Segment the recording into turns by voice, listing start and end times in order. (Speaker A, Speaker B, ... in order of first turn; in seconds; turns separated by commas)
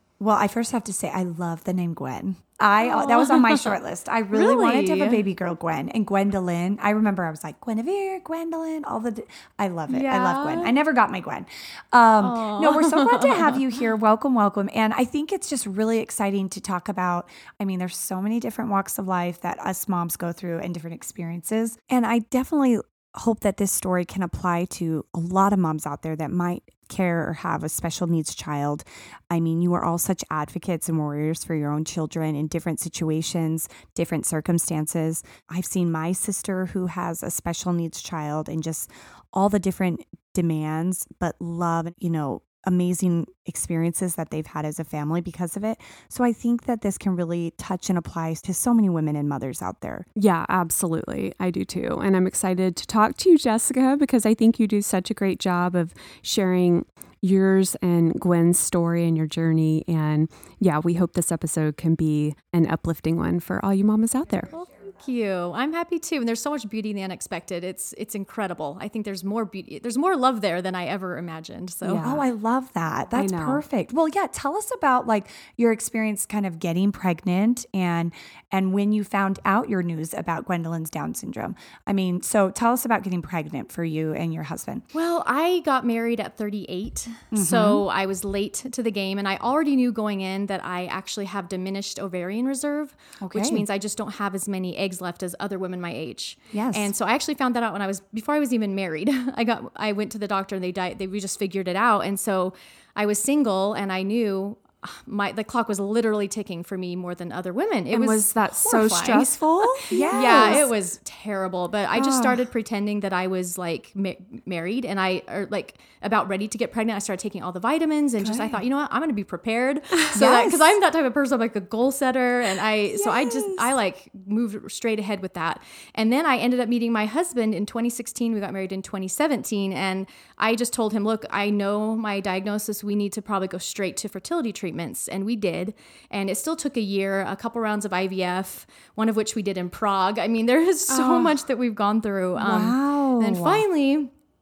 Speaker A: 0.2-50.1, Speaker B: 2.8-3.8, Speaker B: 4.3-5.2, Speaker B: 9.9-10.7, Speaker B: 12.2-13.6, Speaker C: 50.2-64.5, Speaker B: 64.5-72.2, Speaker C: 71.8-72.2, Speaker A: 72.0-84.8, Speaker C: 73.1-73.6, Speaker B: 84.9-144.1, Speaker A: 87.3-87.8, Speaker A: 93.2-93.7, Speaker A: 96.5-96.9, Speaker C: 107.9-110.7, Speaker A: 109.9-110.7, Speaker A: 112.0-112.4, Speaker A: 118.2-118.6, Speaker A: 120.1-120.8, Speaker C: 140.9-141.3, Speaker A: 142.4-143.7